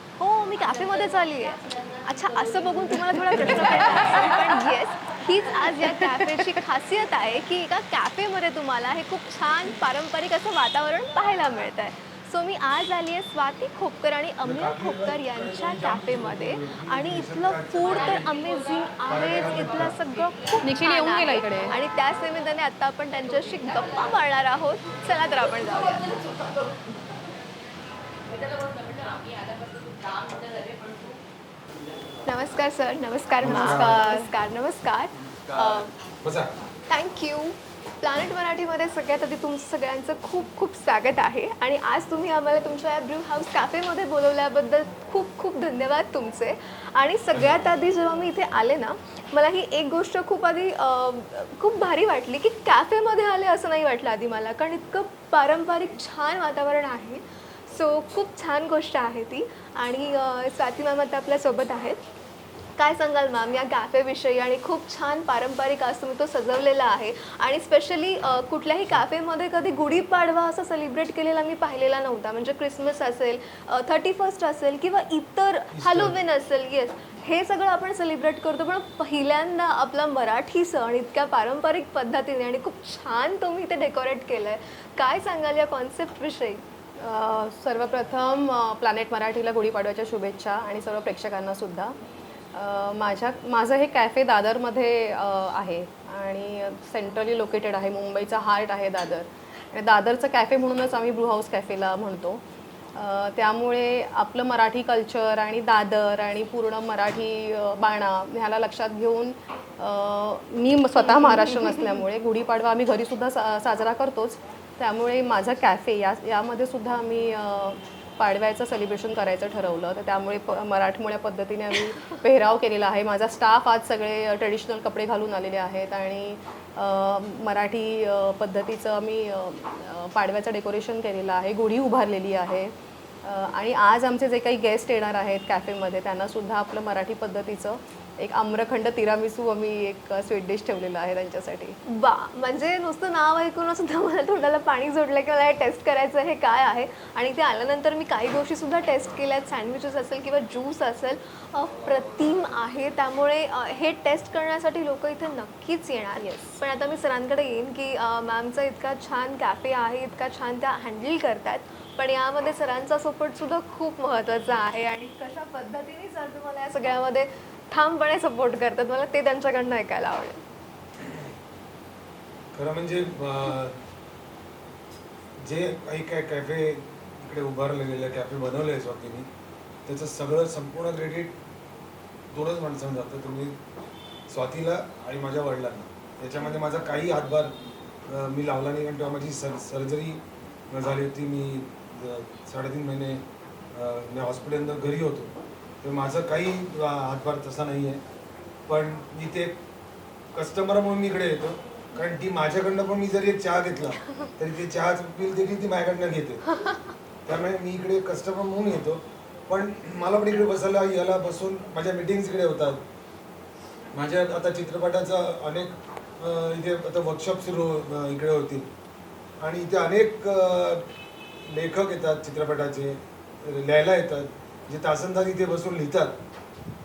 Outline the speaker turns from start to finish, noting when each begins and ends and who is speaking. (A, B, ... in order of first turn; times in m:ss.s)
0:00.2-0:26.1 A
0:03.1-0:04.1 B
0:05.8-0:06.5 B
0:14.4-0:18.3 C
0:19.1-0:20.0 C
0:20.6-0:21.7 B
0:32.2-0:35.9 A
0:33.4-0:34.0 C
0:33.8-0:34.3 B
0:36.2-0:36.5 C
0:36.9-1:02.0 A
1:02.8-1:26.6 A
1:15.7-1:16.2 C
1:27.0-1:31.9 B
1:32.5-1:42.4 B
1:42.9-2:21.8 B
1:51.0-1:52.0 A
2:01.8-2:02.2 A
2:21.9-2:50.4 A
2:36.2-2:36.6 B
2:52.5-2:53.8 C
2:55.4-2:59.3 C
2:59.8-3:01.4 C
3:02.3-3:03.6 C
3:04.3-3:07.5 C
3:08.1-3:18.0 C
3:18.7-3:19.6 C
3:20.3-3:26.4 C
3:27.2-3:32.8 C
3:33.9-3:38.7 C
3:39.4-3:40.8 C
3:41.4-3:46.2 C